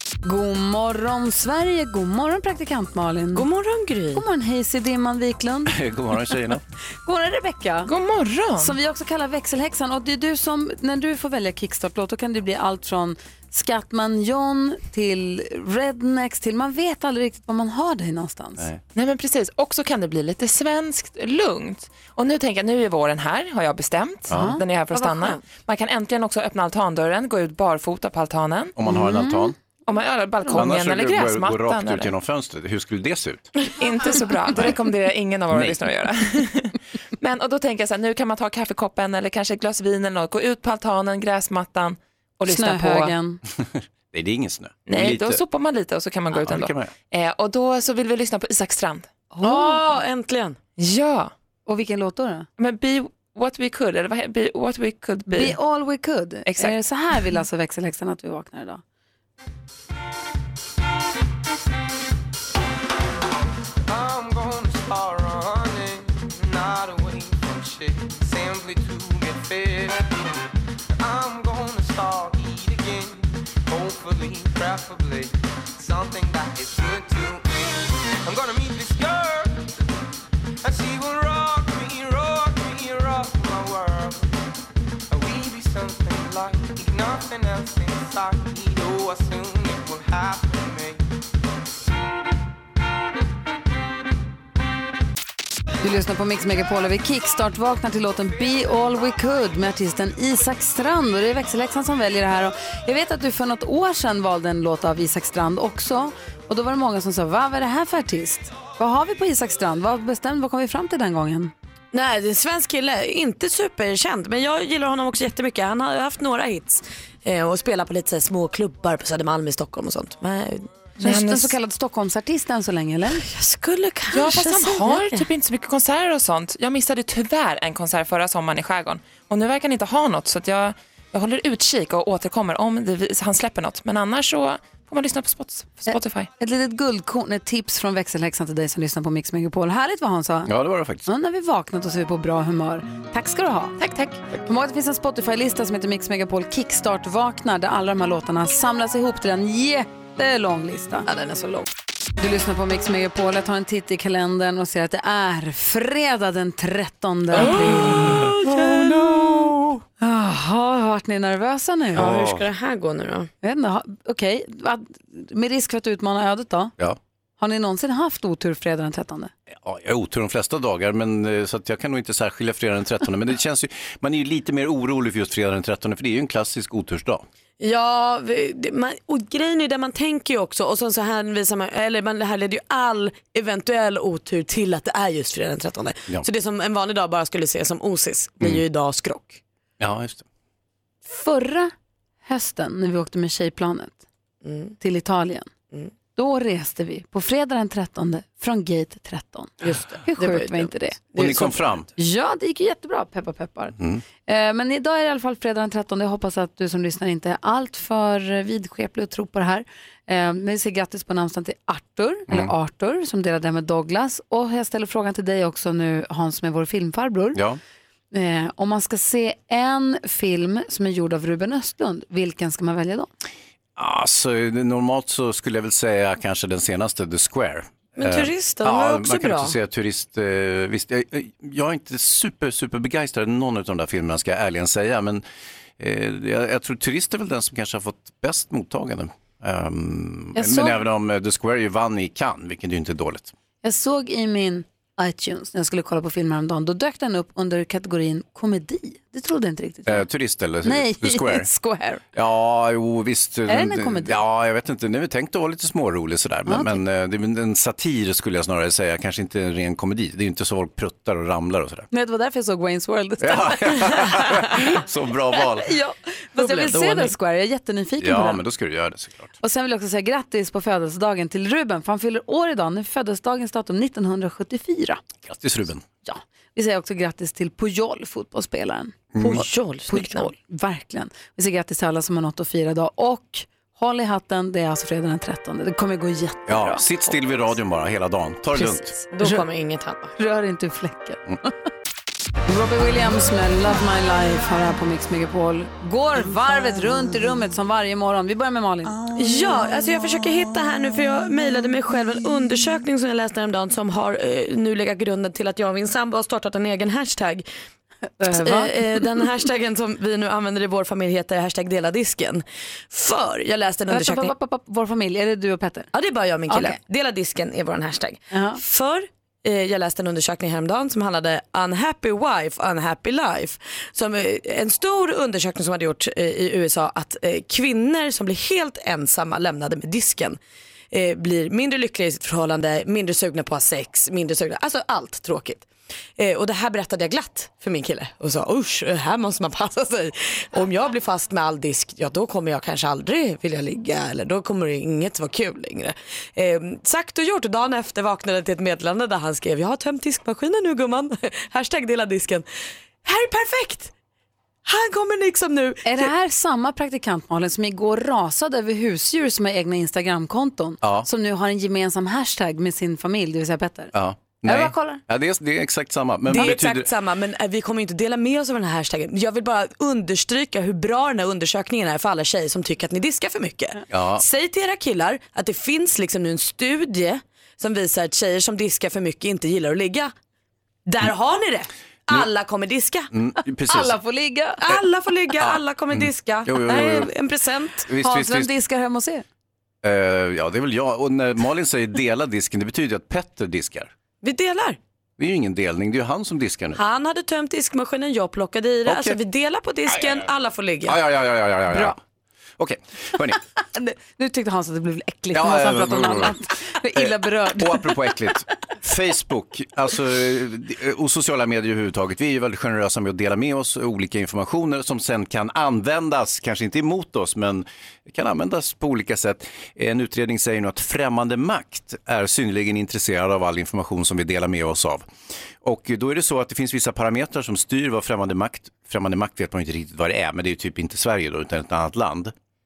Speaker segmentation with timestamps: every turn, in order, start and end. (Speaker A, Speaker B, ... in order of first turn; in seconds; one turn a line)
Speaker A: 0.2-3.4
Speaker B: 3.3-4.2
Speaker A: 4.1-5.7
Speaker C: 5.7-6.6
Speaker A: 7.0-7.9
Speaker D: 7.8-8.8
Speaker A: 8.6-18.7
Speaker D: 18.9-28.7
Speaker C: 24.3-24.6
Speaker A: 24.3-24.6
Speaker B: 24.9-25.4
Speaker C: 28.8-29.5
Speaker A: 28.9-29.5
Speaker D: 29.9-32.1
Speaker C: 30.5-33.5
Speaker D: 33.8-43.1
Speaker C: 34.5-34.8
Speaker C: 35.5-35.9
Speaker A: 42.4-43.4
Speaker C: 43.6-45.4
Speaker D: 44.9-49.2
Speaker C: 46.3-46.9
Speaker A: 49.4-49.8
Speaker B: 49.4-50.6
Speaker D: 50.8-51.3
Speaker A: 51.6-52.5
Speaker D: 52.6-55.6
Speaker A: 55.3-58.8
Speaker D: 56.5-56.8
Speaker E: 63.9-70.1
Speaker E: 71.0-79.8
Speaker E: 80.6-84.4
Speaker E: 85.1-91.0
Speaker A: 95.8-111.5
Speaker B: 111.9-120.7
Speaker A: 121.0-123.2
Speaker D: 121.0-121.5
Speaker B: 123.2-125.3
Speaker D: 124.1-136.3
Speaker A: 135.9-140.5
Speaker C: 140.5-141.1
Speaker A: 141.0-143.8
Speaker D: 143.8-144.2
Speaker A: 144.4-151.1
Speaker B: 151.1-151.7
Speaker A: 152.2-158.3
Speaker B: 157.3-159.6
Speaker A: 160.0-162.1
Speaker B: 161.9-163.3
Speaker C: 161.9-162.4
Speaker A: 163.4-166.7
Speaker A: 167.4-169.3
Speaker C: 169.6-177.2
Speaker B: 177.6-189.4
Speaker C: 189.8-190.2
Speaker A: 191.1-191.7
Speaker A: 192.2-194.0
Speaker B: 194.4-194.8
Speaker A: 194.8-195.5
Speaker A: 196.2-201.1
Speaker B: 199.6-201.6
Speaker C: 201.2-201.9
Speaker A: 201.9-217.4
Speaker C: 217.3-217.6
Speaker A: 218.1-223.1
Speaker C: 223.8-235.2
Speaker B: 228.0-229.5
Speaker C: 235.8-243.3
Speaker A: 240.3-240.8
Speaker A: 243.6-250.1
Speaker C: 249.8-251.5
Speaker A: 250.6-252.0
Speaker C: 252.1-261.9
Speaker A: 253.5-254.2
Speaker A: 256.5-256.8
Speaker A: 261.9-264.5
Speaker C: 263.2-265.7
Speaker A: 265.5-268.4
Speaker B: 266.4-267.1
Speaker C: 268.0-269.3
Speaker A: 269.4-275.0
Speaker C: 275.2-275.8
Speaker A: 276.0-279.0
Speaker C: 279.1-279.4
Speaker B: 279.2-280.3
Speaker A: 279.9-287.1
Speaker C: 286.5-288.9
Speaker A: 288.5-289.4
Speaker B: 289.1-290.1
Speaker A: 290.2-291.2
Speaker A: 292.4-299.0
Speaker B: 299.1-307.4
Speaker A: 308.2-309.0
Speaker B: 308.2-314.3
Speaker A: 313.9-315.9
Speaker B: 315.9-330.4
Speaker A: 316.5-316.8
Speaker A: 318.3-318.6
Speaker B: 330.9-335.7
Speaker B: 336.2-352.4
Speaker B: 353.0-353.9
Speaker B: 354.6-356.1
Speaker A: 355.8-363.9
Speaker C: 360.8-361.1
Speaker C: 363.9-366.9
Speaker A: 364.4-365.0
Speaker B: 366.3-380.1
Speaker C: 373.9-374.2
Speaker B: 380.9-383.1
Speaker C: 383.1-384.0
Speaker A: 383.7-384.6
Speaker B: 384.6-387.9
Speaker C: 385.4-387.1
Speaker C: 387.9-388.5
Speaker A: 388.0-389.2
Speaker C: 389.8-393.9
Speaker B: 394.2-394.8
Speaker C: 395.2-396.8
Speaker B: 396.7-401.0
Speaker C: 398.9-399.2
Speaker C: 400.9-402.0
Speaker A: 401.7-401.9
Speaker C: 402.6-403.4
Speaker A: 403.7-407.9
Speaker C: 405.3-406.3
Speaker C: 406.9-425.1
Speaker C: 425.6-432.3